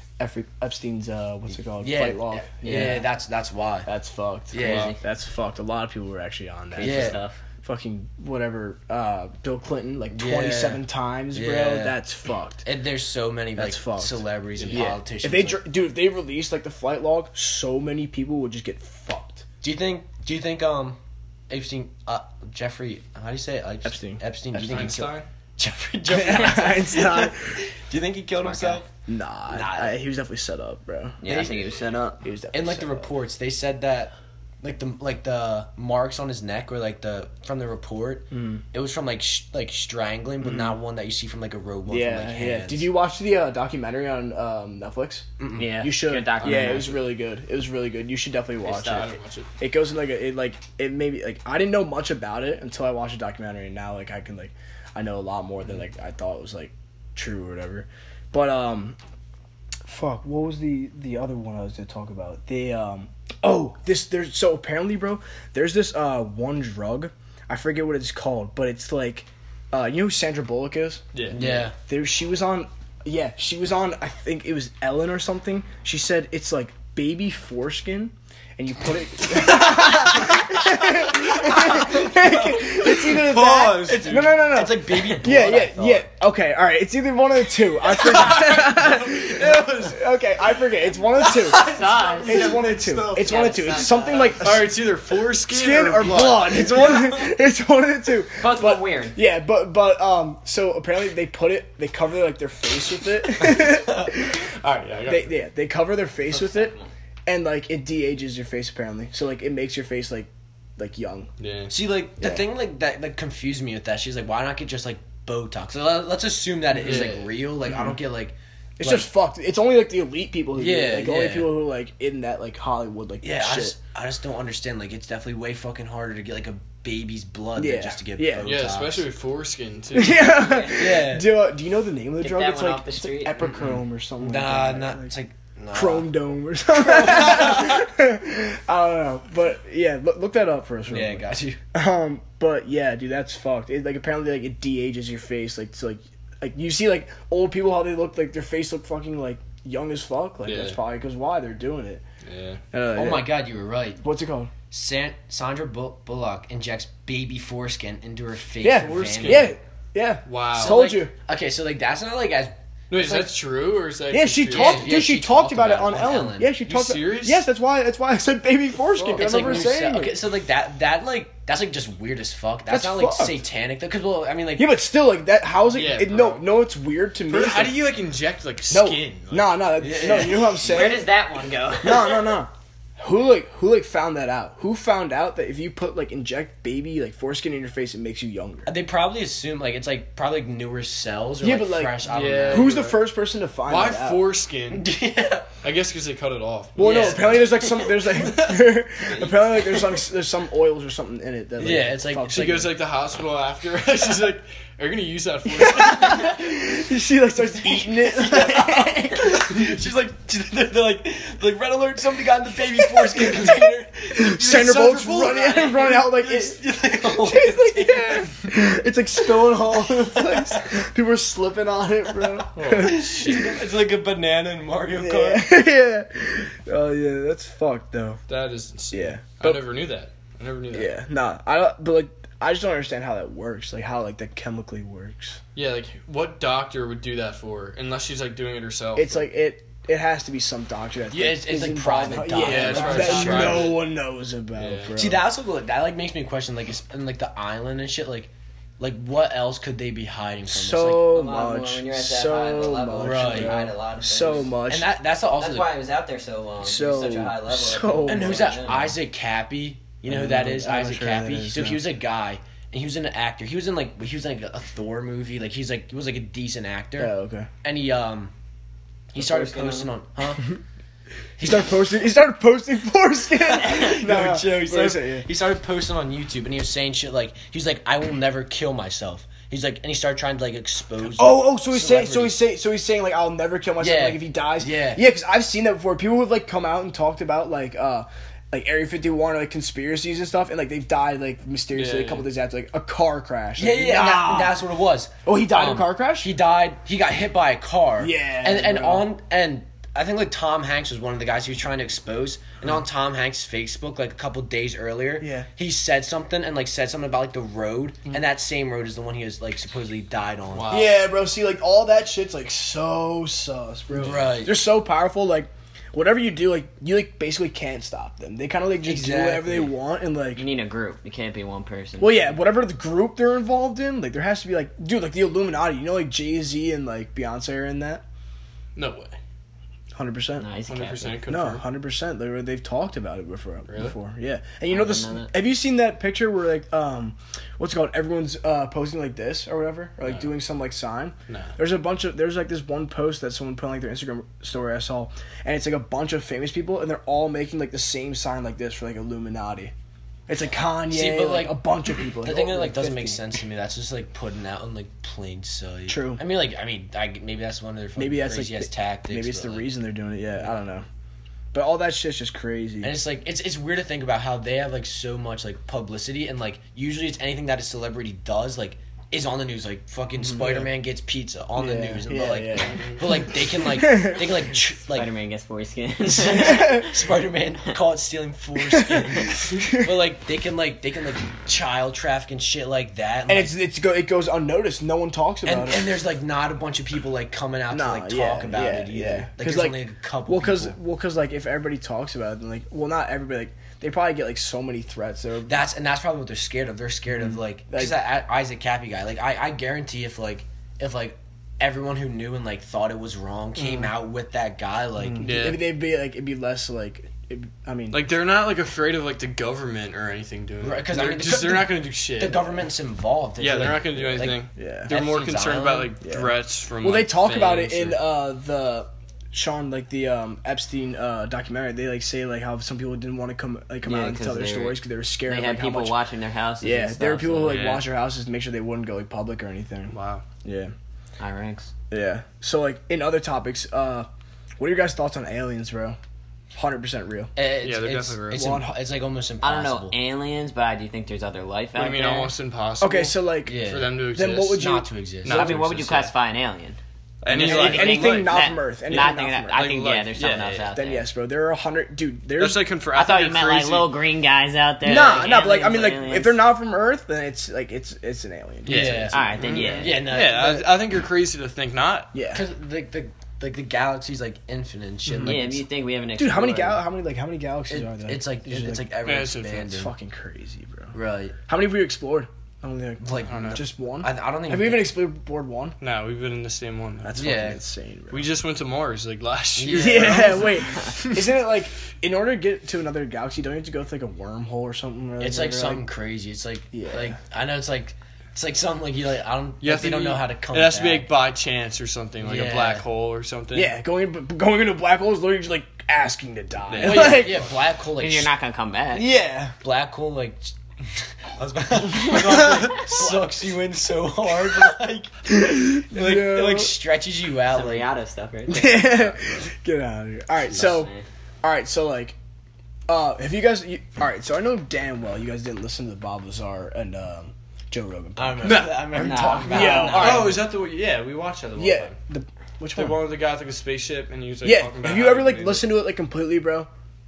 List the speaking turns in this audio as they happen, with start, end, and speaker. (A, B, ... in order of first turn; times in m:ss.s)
0:00.2-0:03.1 A
0:01.8-0:03.9 B
0:03.9-0:12.6 A
0:04.5-0:05.0 B
0:04.6-0:05.0 C
0:04.6-0:05.0 D
0:06.8-0:07.4 D
0:06.8-0:07.2 B
0:10.1-0:12.0 B
0:12.6-0:15.6 B
0:13.6-0:19.4 A
0:14.6-0:14.9 C
0:19.6-0:28.9 B
0:23.8-0:24.2 A
0:24.5-0:25.3 C
0:26.1-0:27.6 A
0:26.3-0:26.6 D
0:28.4-0:28.8 D
0:29.1-0:31.2 A
0:29.5-0:30.0 B
0:31.2-0:32.2 D
0:31.2-0:31.7 B
0:32.2-0:33.1 A
0:32.5-0:42.9 B
0:38.3-0:38.6 A
0:40.4-0:40.7 A
0:41.9-0:59.0 A
0:45.4-0:45.8 B
0:45.6-0:47.0 D
0:46.4-0:47.0 C
0:48.6-0:49.5 C
0:59.8-1:44.4 A
1:11.1-1:11.4 C
1:11.3-1:11.8 B
1:19.7-1:26.1 B
1:23.3-1:24.5 C
1:27.8-1:30.0 C
1:31.2-1:36.8 C
1:31.3-1:34.4 D
1:38.4-1:39.2 D
1:43.4-1:44.2 B
1:44.2-1:45.4 C
1:45.1-1:46.7 A
1:46.3-1:46.9 D
1:47.3-1:51.3 A
1:51.4-1:51.7 C
1:51.7-1:59.1 B
1:56.8-1:57.3 C
1:57.7-1:58.0 A
1:58.8-2:03.8 A
2:00.6-2:01.6 B
2:03.2-2:09.0 B
2:07.6-2:08.5 A
2:08.4-2:10.4 C
2:09.9-2:15.1 A
2:10.3-2:10.9 D
2:10.7-2:11.3 B
2:12.2-2:13.4 D
2:13.4-2:16.1 B
2:15.7-2:32.0 A
2:16.7-2:17.7 B
2:20.9-2:21.6 B
2:30.4-2:30.8 C
2:32.2-2:32.6 C
2:32.7-2:33.3 A
2:32.9-2:34.0 B
2:34.0-2:34.5 A
2:34.7-2:39.5 B
2:38.6-2:41.1 A
2:38.7-2:39.6 C
2:40.3-2:40.8 C
2:40.6-2:42.6 B
2:42.9-2:45.0 C
2:44.1-2:50.2 A
2:44.5-2:46.6 B
2:46.6-2:47.4 C
2:48.9-2:49.7 C
2:49.2-2:54.8 B
2:52.7-2:53.4 A
2:54.6-2:57.8 A
2:55.7-2:56.4 C
2:57.3-2:59.6 C
2:58.7-3:01.1 A
2:59.8-3:00.6 B
3:00.3-3:02.4 D
3:01.8-3:08.7 A
3:08.7-3:12.8 B
3:11.4-3:12.0 A
3:12.0-3:13.0 C
3:12.5-3:14.3 A
3:13.6-3:14.9 C
3:14.7-3:15.5 B
3:15.6-3:17.4 C
3:16.8-3:22.7 A
3:16.8-3:20.0 B
3:21.6-3:22.7 B
3:22.3-3:26.4 C
3:25.5-3:29.4 A
3:27.7-3:38.4 B
3:32.8-3:43.1 A
3:35.3-3:35.5 C
3:40.2-3:40.6 B
3:42.5-3:43.6 C
3:42.7-3:45.5 B
3:45.0-3:48.2 A
3:48.3-3:51.0 C
3:48.9-3:49.6 A
3:50.7-3:55.4 A
3:55.6-3:59.3 C
3:59.0-4:05.2 A
4:01.1-4:03.8 B
4:02.4-4:03.9 C
4:02.4-4:03.6 D
4:04.6-4:05.0 C
4:05.0-4:11.1 B
4:10.5-4:14.9 A
4:11.0-4:14.6 D
4:13.0-4:13.7 B
4:14.7-4:15.7 B
4:15.3-4:18.9 D
4:16.6-4:18.5 A
4:18.1-4:28.3 B
4:20.1-4:21.8 A
4:27.0-4:27.5 A
4:29.1-4:30.6 B
4:29.2-4:29.9 D
4:31.4-4:31.8 B
4:31.4-4:35.3 A
4:33.4-4:42.4 B
4:41.2-4:54.6 A
4:43.8-4:45.0 B
4:51.7-4:52.3 C
4:53.6-5:10.8 B
4:55.2-4:56.3 A
4:58.0-4:59.1 A
5:05.2-5:05.5 A
5:10.5-5:11.0 C
5:10.7-5:20.4 A
5:13.9-5:14.6 B
5:18.8-5:19.8 B
5:20.4-5:22.4 D
5:22.0-5:28.0 A
5:28.8-5:29.2 C
5:30.0-5:30.5 A
5:30.4-5:31.3 D
5:30.7-5:31.6 C
5:31.3-5:49.7 A
5:33.7-5:34.0 C
5:34.7-5:35.3 D
5:40.0-5:40.3 C
5:41.3-5:41.5 C
5:50.3-5:53.2 A
5:50.9-5:59.7 B
5:55.9-5:56.2 A
5:58.0-6:00.9 A
6:01.5-6:03.0 A
6:02.8-6:15.1 B
6:10.2-6:10.7 A
6:11.6-6:14.3 A
6:12.6-6:13.0 C
6:14.9-6:16.9 D
6:16.0-6:23.6 B
6:16.3-6:16.9 A
6:18.7-6:19.9 A
6:23.3-6:25.9 A
6:25.4-6:30.8 B
6:27.7-6:35.6 A
6:35.5-6:45.4 B
6:37.7-6:38.0 A
6:43.6-6:43.9 C
6:45.0-6:48.0 A
6:45.2-6:45.6 C
6:47.9-6:52.6 C
6:50.6-6:55.9 B
6:53.4-6:58.0 C
6:54.6-6:54.9 A
6:56.0-7:06.0 A
7:03.8-7:07.7 D
7:06.6-7:10.7 A
7:07.4-7:07.8 C
7:09.9-7:10.2 C
7:11.2-7:11.7 D
7:11.9-7:16.0 A
7:16.5-7:17.3 A
7:17.4-7:20.0 B
7:17.6-7:18.6 C
7:18.3-7:18.7 A
7:19.4-7:22.3 D
7:21.8-7:24.7 C
7:22.8-7:24.9 A
7:23.5-7:24.0 B
7:24.6-7:26.1 B
7:25.2-7:26.0 C
7:25.3-7:26.8 D
7:27.2-7:30.7 C
7:27.3-7:29.7 A
7:27.3-7:31.1 D
7:30.7-7:32.7 A
7:32.4-7:34.0 C
7:33.0-7:36.4 D
7:34.8-7:39.4 A
7:38.7-7:40.7 B
7:38.7-7:42.1 C
7:39.1-7:40.0 D
7:42.1-7:42.4 A
7:42.3-7:45.6 B
7:45.2-7:46.8 D
7:46.2-7:48.9 A
7:47.7-7:49.9 B
7:49.0-7:49.7 C
7:49.6-7:50.9 A
7:50.9-7:51.4 B
7:51.5-7:55.8 A
7:53.0-7:55.0 B
7:53.3-7:53.6 C
7:55.8-7:57.4 C
7:57.0-7:58.3 A
7:57.2-7:57.6 B
7:58.1-8:01.2 C
7:59.6-8:00.5 B
7:59.7-8:05.9 A
8:05.2-8:11.1 B
8:06.7-8:07.2 A
8:09.6-8:13.7 C
8:12.2-8:12.8 B
8:13.5-8:17.4 A
8:16.7-8:17.4 C
8:16.8-8:18.3 B
8:18.0-8:19.1 D
8:18.9-8:19.6 A
8:19.6-8:27.9 B
8:22.1-8:23.1 A
8:25.3-8:26.8 A
8:27.5-8:29.2 D
8:28.5-8:30.9 A
8:30.5-8:31.0 D
8:31.4-8:32.2 A
8:32.9-8:38.7 A
8:38.2-8:40.4 B
8:38.9-8:40.3 D
8:39.4-8:40.4 A
8:39.7-8:42.0 C
8:41.6-8:43.1 A
8:42.8-8:45.7 C
8:44.4-8:46.7 A